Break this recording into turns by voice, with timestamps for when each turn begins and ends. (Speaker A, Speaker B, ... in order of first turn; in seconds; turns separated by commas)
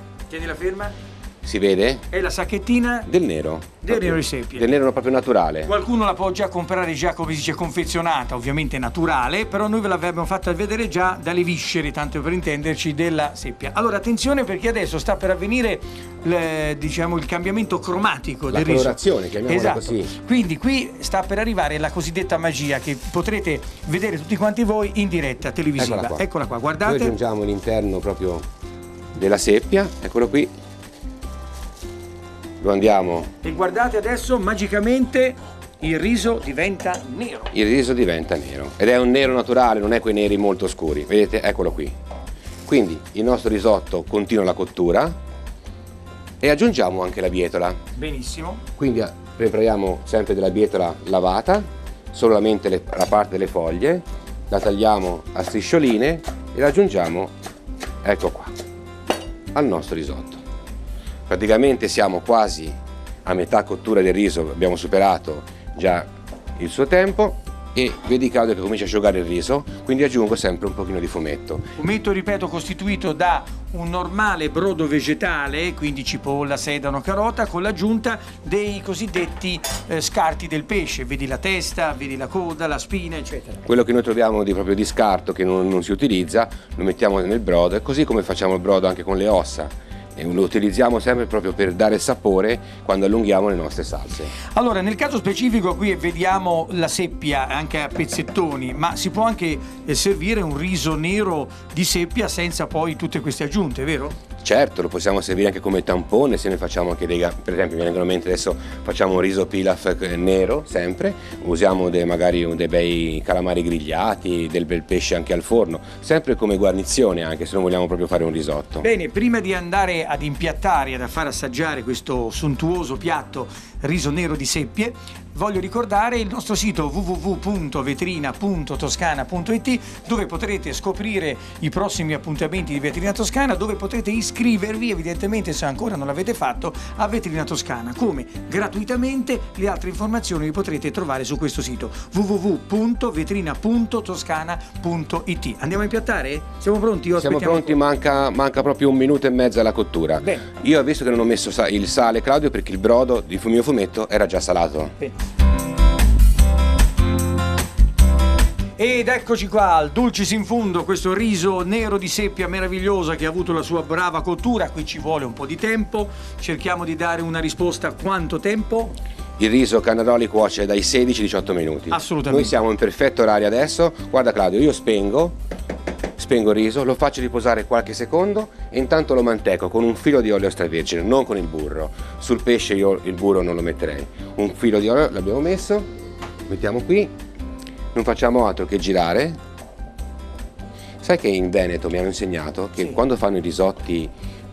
Speaker A: 0.3-0.9, Speaker B: 1.4-2.1, Speaker A: 2.1-3.1, Speaker B: 3.0-5.7, Speaker A: 3.8-4.7, Speaker A: 5.6-27.1, Speaker B: 18.5-20.1, Speaker B: 25.8-26.2, Speaker B: 26.8-28.5, Speaker B: 29.1-30.5, Speaker B: 32.6-33.3, Speaker A: 33.4-37.5, Speaker B: 37.5-42.0, Speaker B: 42.6-45.2, Speaker B: 46.4-47.8, Speaker A: 48.0-48.6, Speaker B: 48.8-57.3, Speaker B: 58.0-58.5, Speaker B: 59.5-60.4, Speaker B: 61.3-71.6, Speaker A: 71.8-83.6, Speaker B: 83.6-94.3, Speaker A: 94.5-104.2, Speaker B: 104.4-118.9, Speaker A: 118.8-147.8, Speaker B: 147.2-154.9, Speaker A: 150.2-150.5, Speaker A: 158.8-168.9, Speaker B: 169.4-175.4, Speaker A: 171.9-172.6, Speaker B: 176.2-185.9, Speaker B: 186.5-187.1, Speaker B: 187.9-189.4, Speaker B: 191.0-194.1